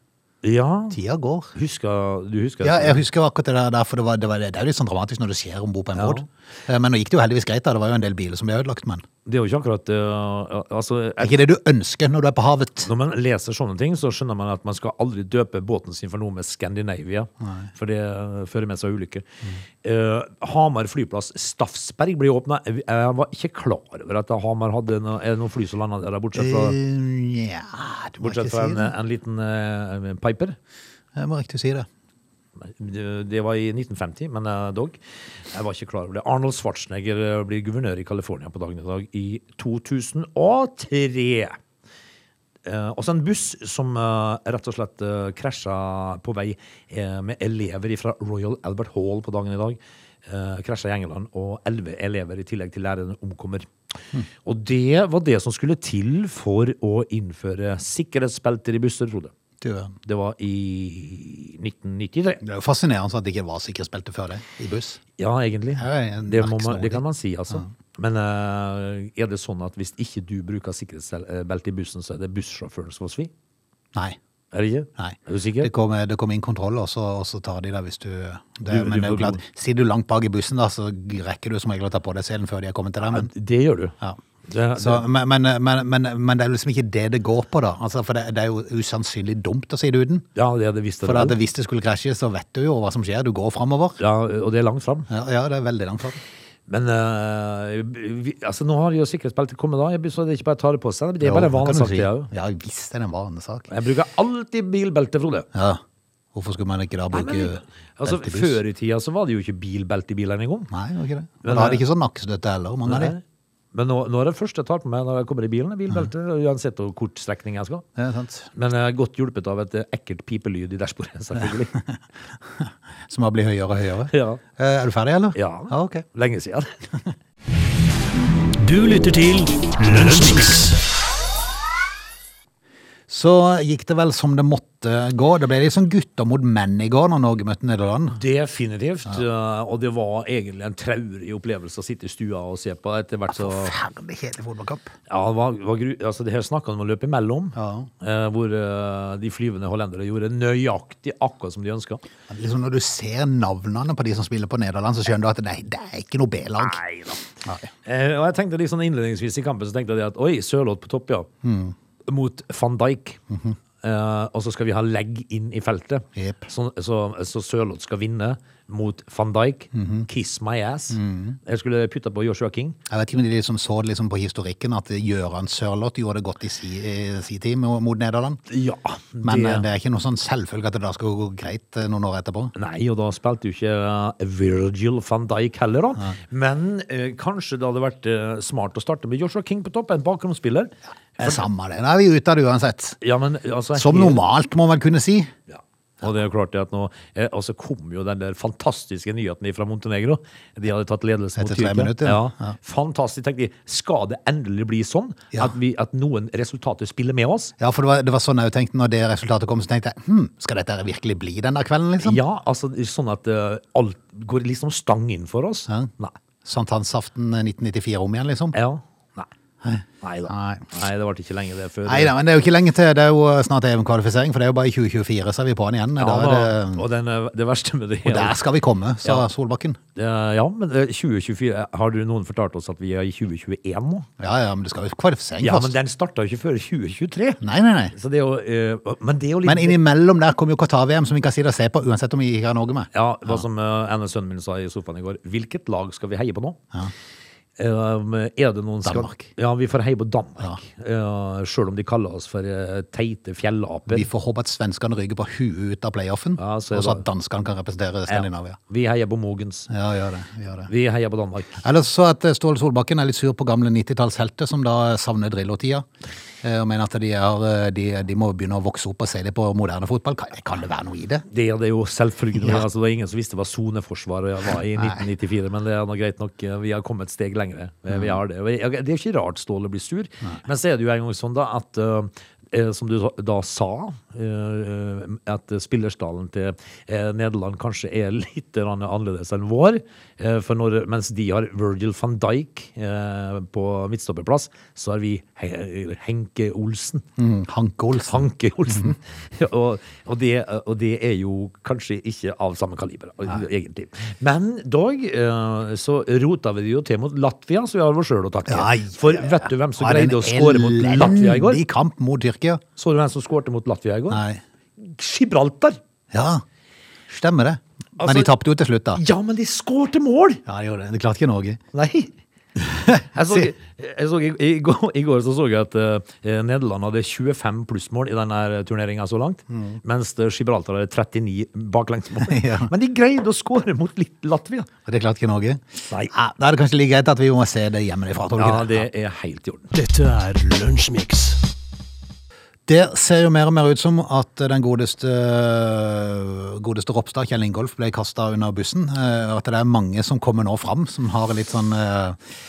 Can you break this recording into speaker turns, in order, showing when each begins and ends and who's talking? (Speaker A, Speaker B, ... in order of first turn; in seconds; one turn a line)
Speaker A: 0.4-1.0
Speaker B: 0.9-1.5
Speaker A: 1.5-3.0
Speaker B: 2.6-9.0
Speaker A: 5.9-6.2
Speaker A: 9.2-11.4
Speaker B: 11.2-12.9
Speaker A: 12.8-19.2
Speaker B: 17.4-17.7
Speaker A: 19.8-26.8
Speaker B: 26.3-28.9
Speaker A: 28.2-30.6
Speaker B: 31.1-31.9
Speaker A: 32.6-41.6
Speaker A: 42.6-53.7
Speaker A: 54.4-59.3
Speaker B: 59.6-59.9
Speaker A: 60.0-62.4
Speaker B: 62.4-65.0
Speaker A: 65.2-73.3
Speaker B: 65.8-67.7
Speaker A: 74.5-75.7
Speaker B: 75.0-83.3
Speaker A: 78.7-79.4
Speaker A: 83.1-83.9
Speaker A: 84.5-85.0
Speaker B: 84.8-90.2
Speaker A: 90.3-91.4
Speaker B: 91.0-94.0
Speaker A: 94.0-95.1
Speaker B: 95.1-96.2
Speaker A: 96.7-102.3
Speaker B: 101.2-103.7
Speaker A: 103.7-105.5
Speaker B: 105.5-105.8
Speaker B: 106.3-108.6
Speaker A: 107.1-110.7
Speaker B: 110.7-113.1
Speaker A: 111.4-111.8
Speaker A: 112.9-113.2
Speaker A: 113.7-117.8
Speaker B: 118.0-118.5
Speaker A: 118.5-121.7
Speaker B: 121.7-122.0
Speaker B: 122.6-126.0
Speaker A: 124.1-124.4
Speaker A: 125.3-126.8
Speaker C: 128.6-130.8
Speaker B: 133.1-138.2
Speaker A: 138.1-143.7
Speaker B: 143.3-144.9
Speaker A: 145.1-152.0
Speaker B: 147.5-147.9
Speaker B: 152.3-156.8
Speaker A: 156.6-157.2
Speaker B: 157.4-157.7
Speaker A: 157.8-161.3
Speaker B: 161.4-161.7
Speaker A: 162.1-163.2
Speaker B: 163.3-163.6
Speaker A: 163.8-172.8
Speaker B: 166.2-166.4
Speaker B: 169.7-170.1
Speaker B: 170.9-171.4
Speaker B: 172.9-178.4
Speaker A: 178.5-179.7
Speaker B: 179.2-182.5
Speaker A: 182.5-191.4
Speaker B: 191.2-193.0
Speaker A: 193.0-194.2
Speaker B: 193.7-195.3
Speaker A: 195.5-207.5
Speaker B: 201.4-202.5
Speaker B: 207.6-212.2
Speaker A: 212.0-216.1
Speaker B: 216.4-218.6
Speaker A: 218.5-219.3
Speaker B: 219.6-220.7
Speaker A: 220.0-222.1
Speaker B: 221.8-226.8
Speaker A: 226.0-228.4
Speaker B: 228.0-229.8
Speaker A: 229.9-234.1
Speaker B: 234.2-235.7
Speaker A: 235.4-237.4
Speaker B: 237.4-237.9
Speaker A: 237.9-239.8
Speaker B: 239.4-243.4
Speaker A: 242.9-246.6
Speaker A: 247.6-254.1
Speaker B: 248.8-249.3
Speaker B: 253.9-258.6
Speaker A: 256.4-257.0
Speaker A: 258.1-259.7
Speaker B: 259.7-260.7
Speaker A: 260.7-261.6
Speaker B: 261.6-265.9
Speaker B: 266.4-271.2
Speaker A: 271.3-297.1
Speaker B: 274.8-275.1
Speaker B: 277.9-278.1
Speaker B: 297.2-298.9
Speaker A: 298.0-311.6
Speaker B: 308.5-312.6
Speaker A: 312.8-314.2
Speaker B: 314.1-314.4
Speaker A: 314.8-315.8
Speaker B: 316.1-316.4
Speaker B: 317.1-319.0
Speaker A: 318.0-318.3
Speaker A: 318.9-320.4
Speaker B: 320.4-321.6
Speaker A: 321.7-322.1
Speaker B: 322.6-323.5
Speaker A: 323.1-334.7
Speaker B: 329.5-329.8
Speaker B: 332.2-332.7
Speaker B: 334.9-338.9
Speaker A: 338.4-339.7
Speaker C: 339.7-341.4
Speaker B: 342.7-352.2